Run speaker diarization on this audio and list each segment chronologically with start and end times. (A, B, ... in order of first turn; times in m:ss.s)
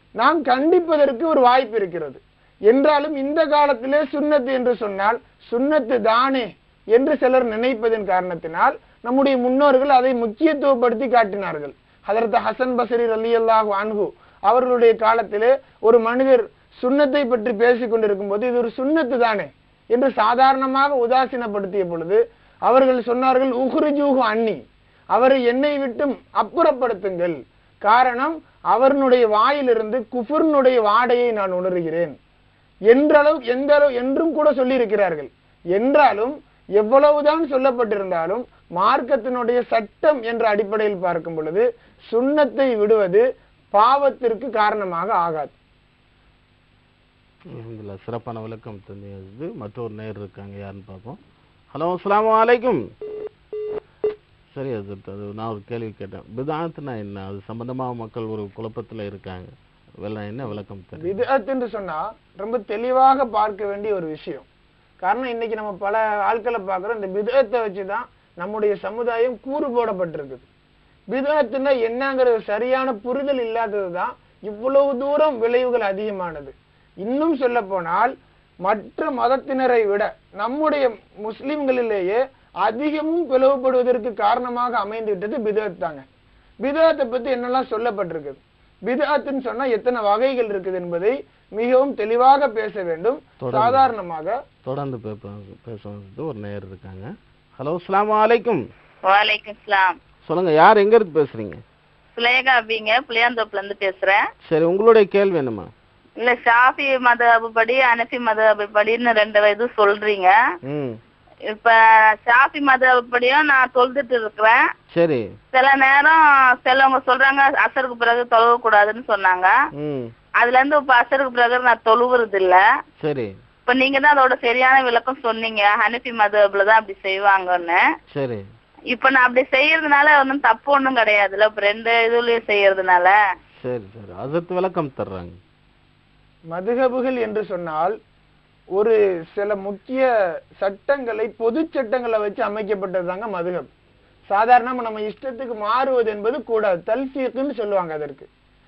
0:00.2-0:24.6 A
0:25.1-0:32.1 A
0:32.9-0:45.5 A
0:47.6-0:51.2 B
0:51.7-0:52.8 B
0:54.5-1:01.2 B
1:01.0-1:04.4 A
1:05.0-1:10.4 A
1:11.1-1:18.1 A
1:18.6-1:26.0 A
1:26.6-1:34.4 A
1:33.4-1:33.9 B
1:34.6-1:38.6 B
1:39.0-1:39.9 C
1:40.2-1:41.6 B
1:42.2-1:44.2 C
1:44.4-1:45.7 B
1:46.2-1:50.3 C
1:50.6-1:51.0 B
1:51.5-1:54.6 C
1:54.9-1:55.2 B
1:55.5-1:59.5 C
1:59.7-2:00.1 B
2:00.4-2:02.6 C
2:03.0-2:03.4 B
2:03.7-2:07.8 C
2:08.1-2:08.4 B
2:08.9-2:13.1 C
2:13.6-2:15.4 B
2:16.5-2:18.0 A
2:18.8-2:23.7 A
2:24.3-2:28.3 A